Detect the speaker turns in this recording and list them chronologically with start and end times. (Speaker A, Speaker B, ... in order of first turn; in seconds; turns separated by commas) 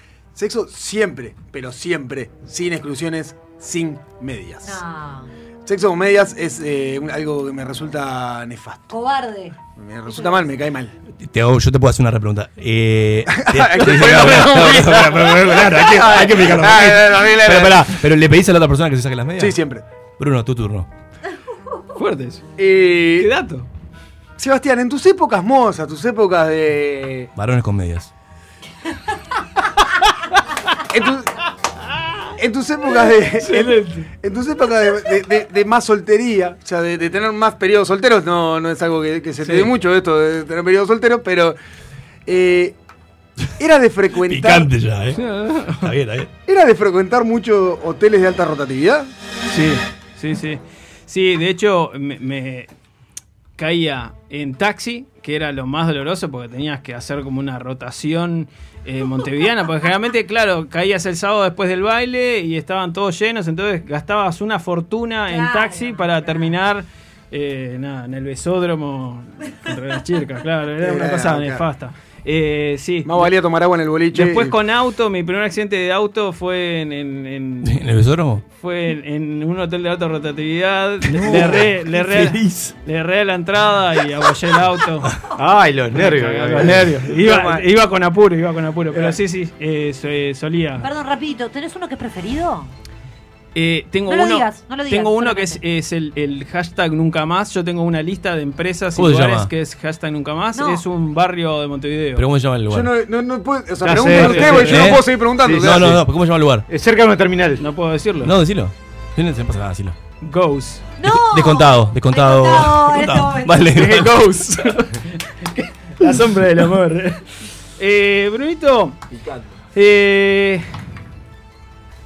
Speaker A: 0.3-4.8, Speaker B: 4.6-5.3, Speaker A: 5.7-8.9, Speaker B: 8.9-9.5, Speaker A: 9.8-10.9, Speaker B: 10.1-10.5, Speaker C: 11.2-19.6, Speaker A: 13.3-17.9, Speaker A: 19.4-19.8, Speaker C: 20.2-20.9, Speaker D: 21.9-22.4, Speaker A: 22.6-23.3, Speaker D: 23.1-23.7, Speaker A: 24.4-27.3, Speaker C: 27.4-28.1, Speaker A: 30.9-31.3, Speaker A: 32.4-41.5, Speaker D: 33.4-34.1, Speaker D: 39.4-39.7, Speaker A: 42.2-42.7, Speaker A: 43.6-44.7, Speaker C: 44.2-46.3, Speaker D: 45.1-45.9, Speaker A: 46.5-49.1, Speaker D: 49.5-52.7, Speaker D: 53.6-73.3, Speaker B: 65.3-66.5, Speaker A: 70.8-71.6, Speaker A: 73.0-74.5, Speaker D: 74.1-77.7, Speaker C: 77.6-78.4, Speaker D: 78.5-85.1, Speaker C: 81.1-82.7, Speaker E: 85.3-87.6, Speaker D: 85.9-90.9, Speaker B: 90.8-92.7, Speaker D: 93.5-102.2, Speaker B: 94.1-95.6, Speaker C: 98.9-99.5, Speaker B: 100.5-100.8, Speaker C: 102.1-102.9, Speaker A: 102.7-106.0, Speaker E: 103.8-104.8, Speaker D: 104.0-105.0, Speaker C: 104.6-106.7, Speaker E: 105.4-106.0, Speaker E: 106.7-107.6, Speaker D: 107.6-108.3, Speaker C: 108.2-110.0, Speaker D: 110.2-110.8, Speaker B: 111.0-113.7, Speaker C: 111.0-114.4, Speaker D: 113.7-115.0, Speaker D: 116.0-117.2, Speaker D: 117.8-119.0, Speaker A: 119.1-119.5, Speaker D: 119.7-120.6